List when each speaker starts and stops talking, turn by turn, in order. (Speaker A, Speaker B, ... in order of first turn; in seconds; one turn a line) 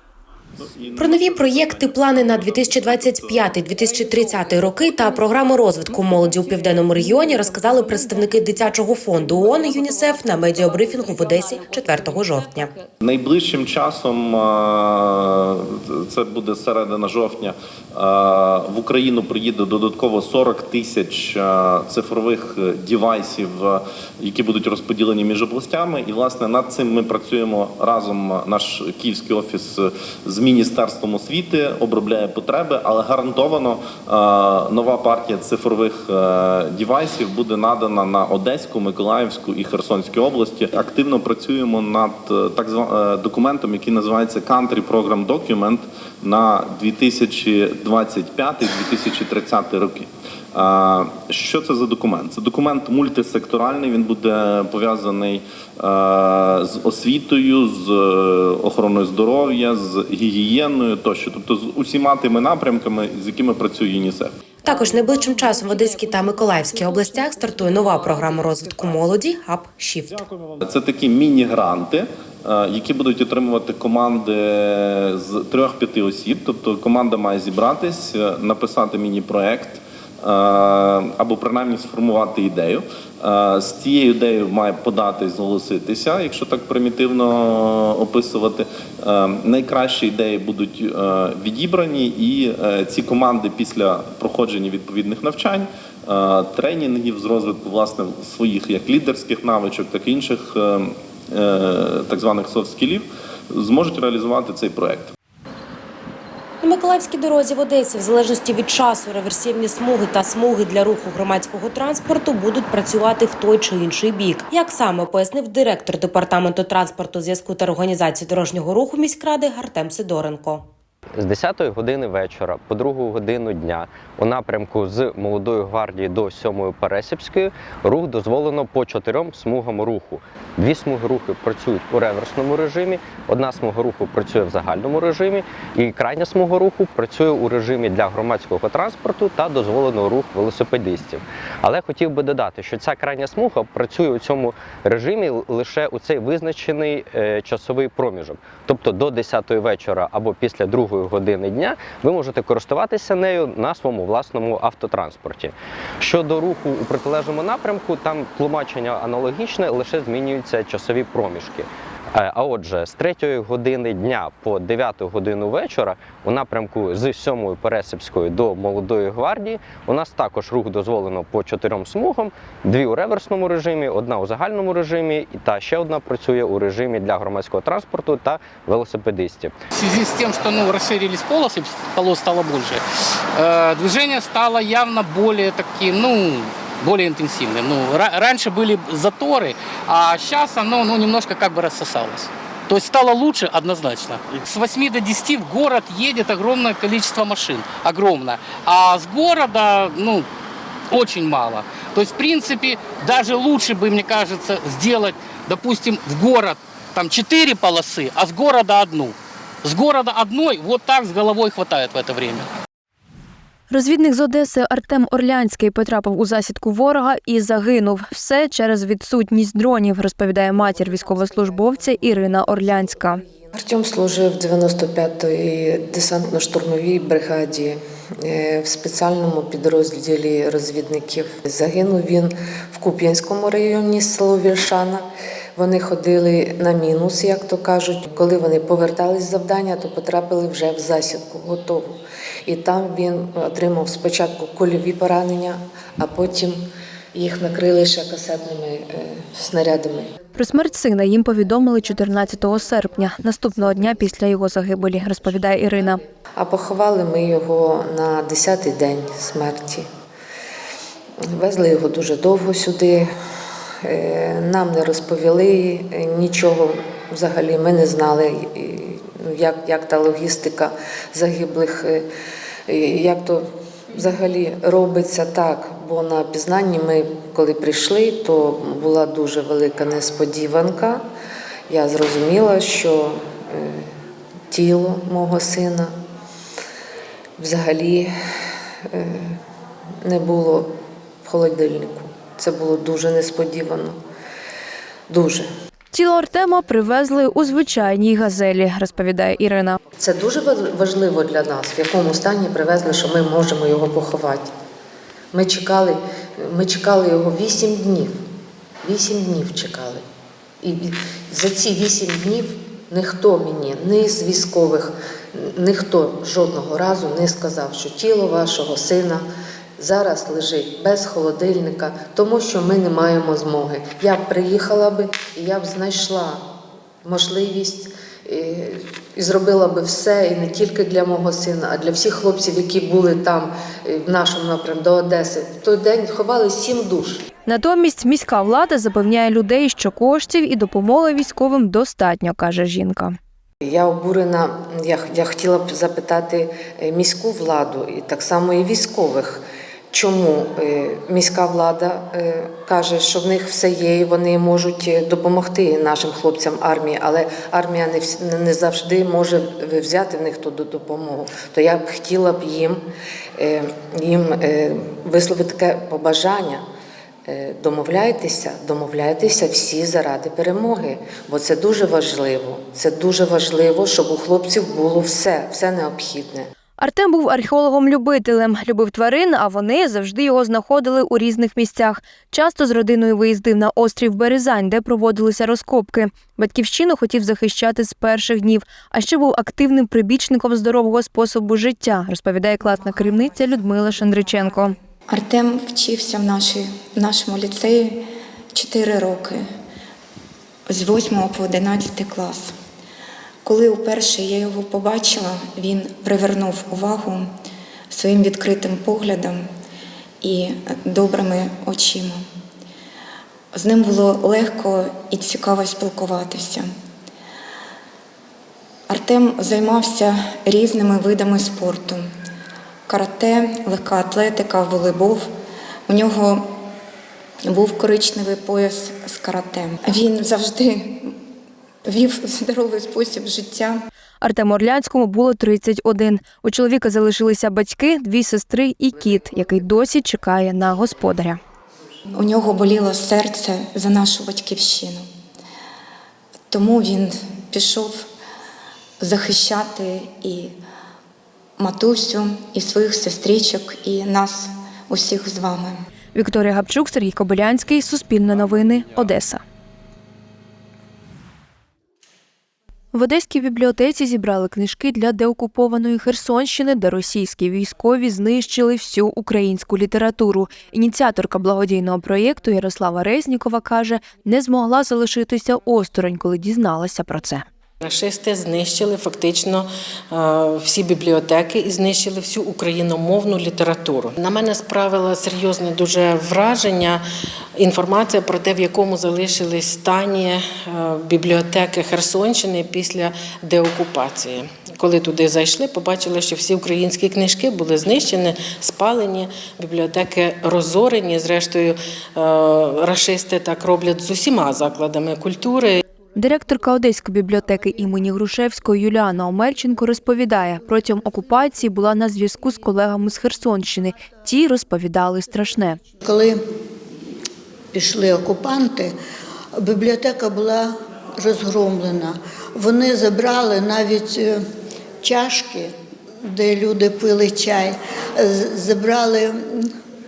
Speaker A: 0.6-3.8
Speaker B: 1.0-12.7
Speaker A: 4.5-4.7
Speaker A: 13.0-64.3
Speaker B: 64.6-70.2
Speaker A: 70.6-105.1
Speaker B: 106.6-120.7
Speaker C: 121.2-179.6
Speaker D: 179.8-182.8
Speaker D: 183.3-200.3
Speaker D: 200.9-212.5
Speaker E: 213.7-223.2
Speaker F: 223.5-235.0
Speaker F: 235.6-246.6
Speaker F: 247.1-250.1
Speaker E: 250.3-256.0
Speaker F: 256.4-259.9
Speaker F: 261.4-263.1
Speaker F: 263.9-272.1
Speaker F: 272.7-273.4
Speaker F: 273.9-281.0
Speaker F: 281.7-283.9
Speaker F: 284.5-285.9
Speaker F: 287.4-288.1
Speaker F: 288.9-289.4
Speaker F: 290.0-290.7
Speaker F: 291.2-294.0
Speaker F: 295.1-295.5
Speaker E: 295.9-299.8
Speaker F: 300.0-304.5
Speaker F: 305.3-308.1
Speaker F: 308.8-310.0
Speaker F: 310.6-319.2
Speaker F: 319.8-326.4
Speaker F: 327.1-337.2
Speaker E: 337.5-343.2
Speaker F: 343.6-362.8
Speaker F: 363.4-366.6
Speaker F: 367.3-376.5
Speaker E: 376.8-394.7
Speaker G: 395.1-399.4
Speaker G: 400.7-402.6
Speaker G: 403.4-407.3
Speaker G: 407.9-409.5
Speaker G: 410.2-412.2
Speaker G: 413.5-416.7
Speaker G: 418.9-422.1
Speaker G: 422.9-425.3
Speaker G: 425.9-426.6
Speaker G: 427.4-431.2
Speaker G: 431.9-433.8
Speaker E: 434.2-441.4
Speaker G: 442.1-445.1
Speaker G: 446.5-448.1
Speaker G: 449.0-450.6
Speaker G: 451.6-455.8
Speaker E: 456.1-459.4
Speaker E: 462.9-477.4
Speaker H: 477.8-487.0
Speaker H: 487.6-505.8
Speaker E: 506.2-515.8
Speaker I: 516.0-516.4
Speaker I: 517.7-518.9
Speaker I: 519.6-524.4
Speaker I: 525.0-525.7
Speaker I: 526.3-529.7